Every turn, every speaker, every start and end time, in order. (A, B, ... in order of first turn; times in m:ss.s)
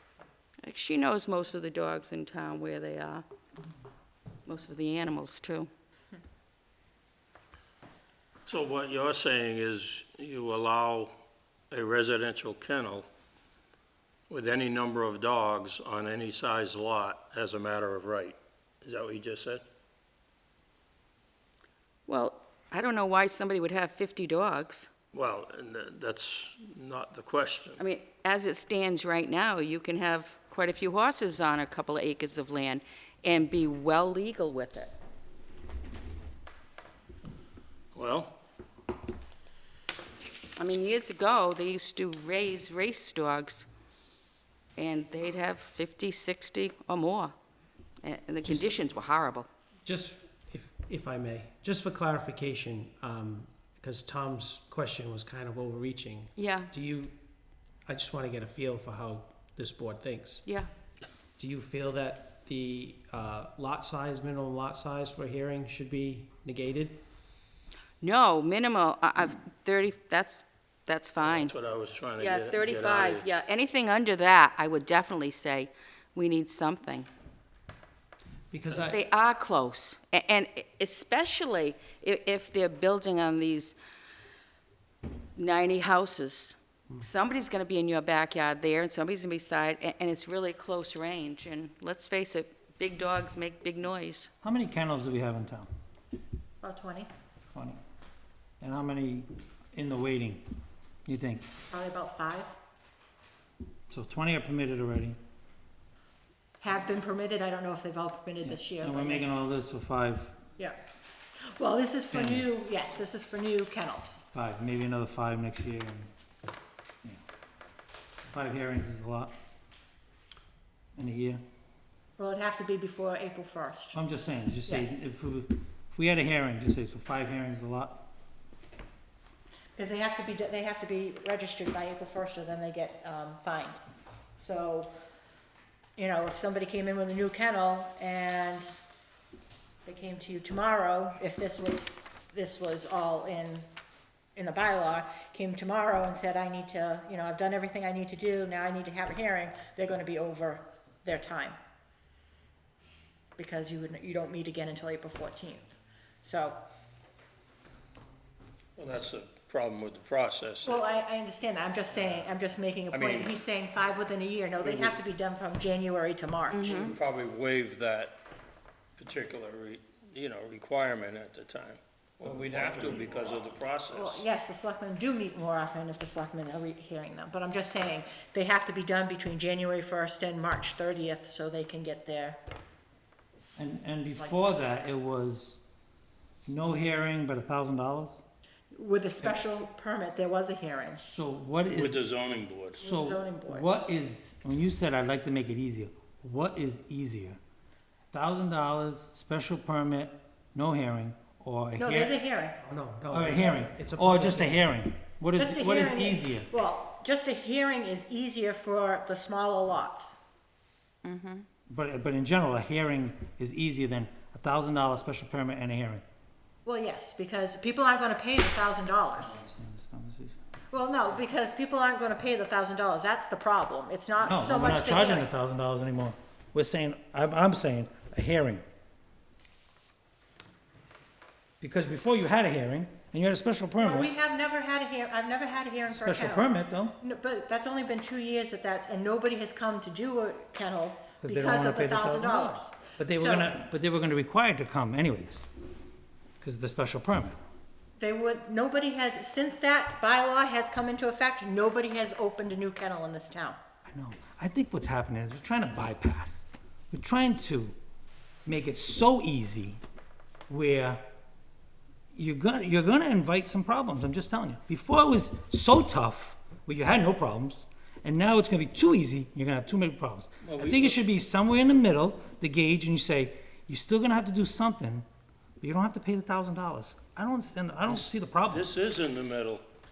0:00.6-0:03.2 A
0:04.5-0:05.7 A
0:08.5-0:11.1 B
0:11.7-0:13.1 B
0:14.3-0:19.6 B
0:22.1-0:24.9 A
0:25.1-0:27.8 B
0:27.8-0:34.9 A
0:38.0-0:38.4 B
0:40.6-0:43.7 A
0:44.8-0:47.3 A
0:48.0-0:49.5 A
0:48.4-0:48.7 C
0:49.8-0:57.2 C
0:56.4-0:56.7 A
0:57.9-1:00.4 C
1:00.4-1:00.7 A
1:01.4-1:07.0 C
1:08.0-1:11.5 A
1:11.2-1:13.3 B
1:12.2-1:17.1 A
1:18.5-1:19.0 C
1:18.8-1:23.8 A
1:25.4-1:34.3 A
1:34.4-1:35.7 D
1:36.6-1:37.1 E
1:37.5-1:37.8 D
1:38.6-1:40.4 D
1:41.1-1:41.5 D
1:41.7-1:42.6 E
1:43.9-1:45.2 D
1:46.6-1:49.4 E
1:48.4-1:50.4 D
1:51.5-1:54.2 E
1:52.1-1:52.5 D
1:54.3-1:56.1 D
1:58.3-1:59.4 D
2:01.0-2:01.4 D
2:02.2-2:04.0 E
2:03.9-2:08.0 D
2:09.8-2:13.8 E
2:14.4-2:14.9 E
2:16.0-2:18.7 E
2:19.8-2:23.7 E
2:24.4-2:31.6 E
2:33.4-2:36.6 E
2:38.8-2:40.9 B
2:40.6-2:46.8 E
2:42.9-2:43.4 B
2:44.6-2:44.9 B
2:46.5-2:46.9 A
2:46.6-2:48.2 B
2:49.0-2:54.2 B
2:52.2-2:53.3 D
2:53.9-3:02.4 E
3:03.6-3:05.6 D
3:04.2-3:04.7 E
3:06.5-3:08.2 D
3:08.7-3:11.1 E
3:11.0-3:12.0 D
3:11.7-3:12.8 B
3:12.8-3:13.6 E
3:12.8-3:17.4 D
3:18.1-3:22.2 D
3:21.8-3:22.6 E
3:22.6-3:24.6 C
3:23.1-3:26.5 D
3:25.4-3:30.2 E
3:31.0-3:31.5 A
3:31.7-3:36.0 D
3:36.6-3:39.4 E
3:39.2-3:40.4 D
3:40.7-3:45.3 E
3:44.2-3:48.6 D
3:51.6-3:54.1 D
3:53.8-3:56.5 E
3:55.9-3:57.0 D
3:57.0-4:03.5 E
4:01.2-4:05.5 D
4:06.4-4:07.4 D
4:08.0-4:13.6 E
4:13.9-4:17.8 D
4:18.5-4:19.8 D
4:20.5-4:21.0 D
4:22.1-4:35.1 D
4:30.4-4:31.0 B
4:35.6-4:38.7 D
4:37.9-4:39.6 B